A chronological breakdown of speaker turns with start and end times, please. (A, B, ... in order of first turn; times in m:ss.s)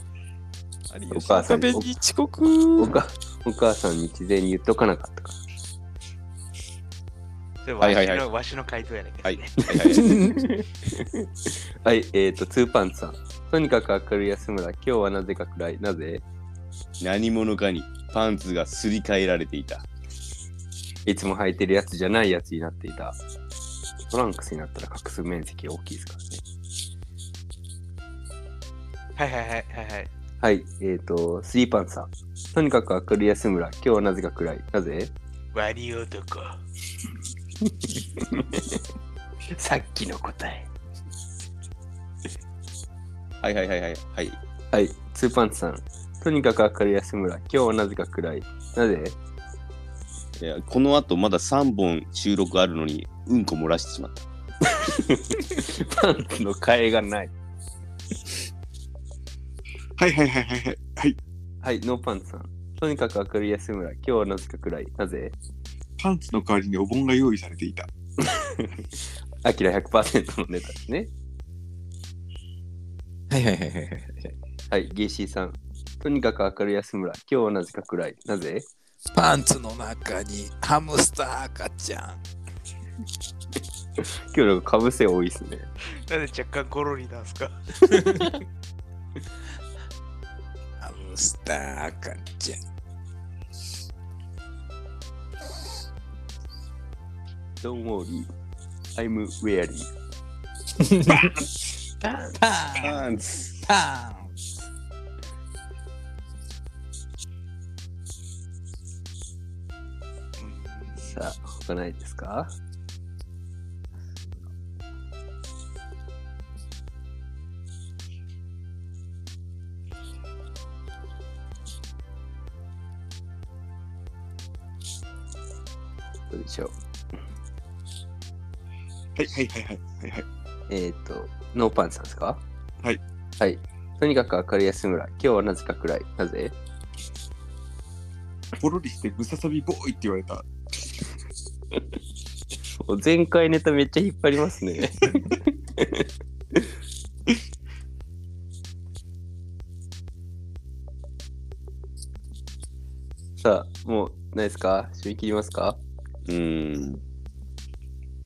0:00.9-0:03.0 A
0:01.1-0:01.9 B
0:02.8-0:05.4 B
0:07.6-0:09.6 C
0:07.8-0:08.3 D
0:09.2-0:10.1 D
0:09.7-0:16.2 B
0:09.9-0:10.6 A
0:17.0-0:19.8 D
0:21.1-0:23.2 B
0:24.1-0:26.4 B
0:29.2-0:30.1 C
0:30.4-0:35.1 B
0:35.5-0:36.6 C
0:38.2-0:38.8 B
0:39.5-0:40.7 B
0:43.4-0:44.4 D
0:44.7-0:49.2 B
0:50.4-0:54.3 D
0:54.7-0:57.3 B
1:00.0-1:01.2 E
1:01.6-1:05.3 B
1:06.0-1:07.9 E
1:08.2-1:08.9 B
1:09.4-1:11.1 B
1:13.3-1:14.3 A
1:14.7-1:18.7 B
1:19.1-1:22.2 A
1:24.0-1:25.7 B
1:26.1-1:27.6 C
1:27.9-1:28.3 A
1:30.8-1:32.6 A
1:37.6-1:38.3 B
1:39.0-1:39.9 B
1:40.8-1:41.3 A
1:42.0-1:42.4 B
1:42.4-1:43.0 A
1:42.7-1:43.6 D
1:43.6-1:44.4 A
1:50.4-1:51.0 E
1:51.0-1:52.5 B
2:06.3-2:06.7 B
2:09.2-2:10.2 E
2:10.7-2:12.4 B
2:13.4-2:16.6 B
2:18.6-2:20.5 E
2:22.8-2:26.7 B
2:33.4-2:35.8 B
2:36.3-2:37.0 D